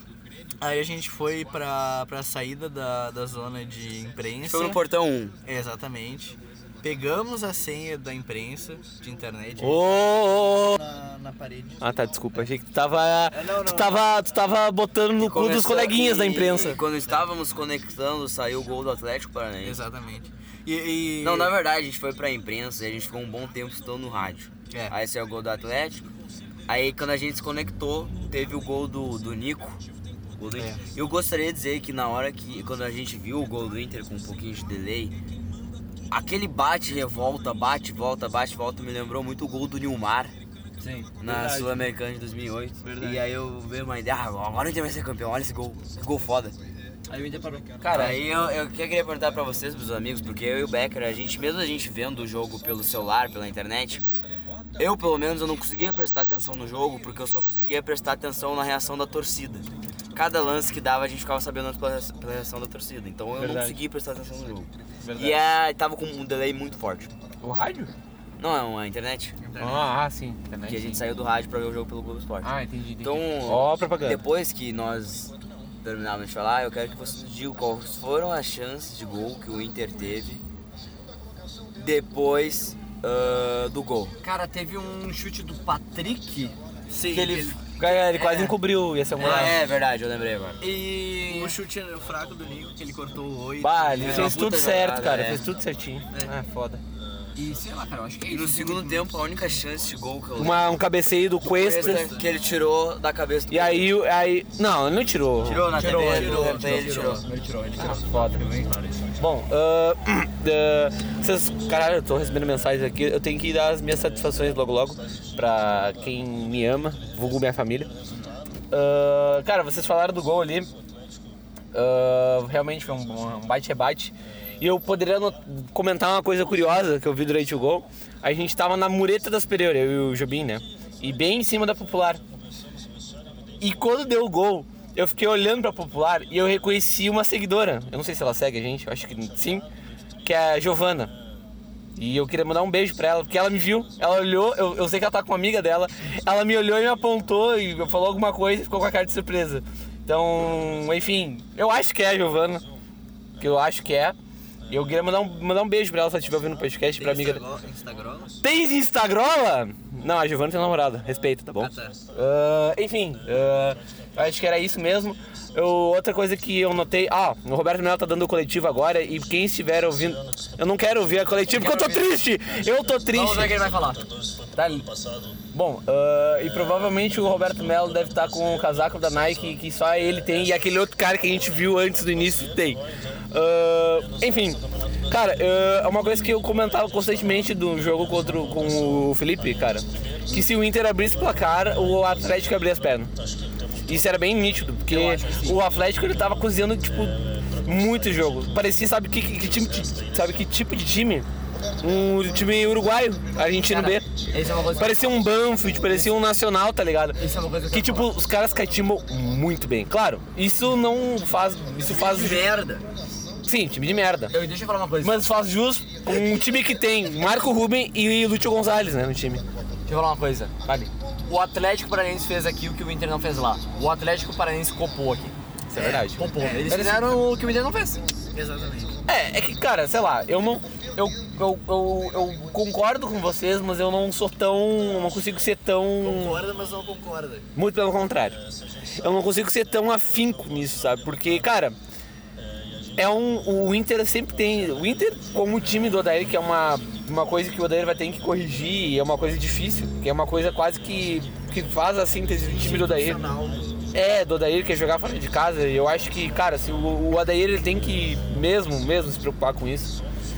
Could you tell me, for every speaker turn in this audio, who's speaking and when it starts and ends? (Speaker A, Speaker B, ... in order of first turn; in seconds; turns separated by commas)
Speaker A: 0.6-4.8, Speaker B: 4.4-5.3, Speaker A: 5.4-9.9, Speaker C: 9.6-10.8, Speaker A: 10.6-11.8, Speaker C: 11.8-16.8, Speaker A: 13.3-14.0, Speaker B: 15.2-19.8, Speaker A: 19.6-21.5, Speaker B: 21.2-26.1, Speaker B: 26.7-29.8, Speaker B: 30.4-35.1, Speaker A: 30.5-30.8, Speaker B: 36.1-40.3, Speaker D: 40.8-41.8, Speaker B: 41.2-46.5, Speaker D: 42.8-43.2, Speaker D: 47.1-48.1, Speaker C: 47.8-48.2, Speaker B: 47.9-54.0, Speaker B: 54.8-67.1, Speaker C: 63.4-63.8, Speaker C: 65.0-65.3, Speaker C: 67.4-67.9, Speaker B: 68.4-69.3, Speaker A: 69.4-69.9, Speaker C: 69.6-71.0, Speaker B: 70.7-80.4, Speaker C: 72.4-74.2, Speaker B: 81.7-84.1, Speaker D: 84.2-86.5, Speaker A: 86.9-87.6, Speaker B: 87.0-87.9, Speaker C: 87.8-89.6, Speaker D: 88.2-88.5, Speaker D: 89.2-89.5, Speaker B: 89.2-90.6, Speaker D: 90.6-91.5, Speaker A: 91.2-94.3, Speaker C: 93.6-96.8, Speaker B: 94.0-95.5, Speaker D: 97.3-99.1, Speaker B: 98.3-100.7, Speaker C: 100.4-102.1, Speaker B: 101.4-103.9, Speaker A: 101.8-102.2, Speaker C: 103.5-105.7, Speaker B: 105.4-107.2, Speaker D: 105.7-109.1, Speaker A: 105.9-107.0, Speaker C: 107.8-108.4, Speaker C: 109.2-117.9, Speaker C: 118.7-120.7, Speaker C: 121.7-132.2, Speaker C: 133.6-139.7, Speaker C: 140.2-141.1, Speaker C: 141.9-152.6, Speaker C: 153.4-154.2, Speaker C: 154.7-157.4, Speaker A: 157.0-158.3, Speaker C: 158.4-173.7, Speaker A: 161.5-162.0, Speaker D: 171.5-172.1, Speaker D: 173.1-174.0, Speaker C: 174.5-174.8, Speaker C: 175.5-193.1, Speaker C: 193.8-201.3, Speaker D: 194.9-195.6, Speaker C: 201.8-204.1, Speaker D: 203.6-205.1, Speaker C: 204.7-212.5, Speaker D: 207.2-208.1, Speaker D: 211.9-212.8, Speaker C: 213.4-214.3, Speaker D: 214.3-215.2, Speaker C: 215.0-219.4, Speaker D: 219.9-228.0, Speaker C: 225.7-227.1, Speaker A: 226.4-226.7, Speaker A: 228.3-229.0, Speaker C: 229.1-236.4, Speaker A: 236.0-237.4, Speaker C: 237.6-238.4, Speaker C: 239.0-241.8, Speaker C: 242.9-253.2, Speaker A: 252.4-253.9, Speaker C: 253.9-260.0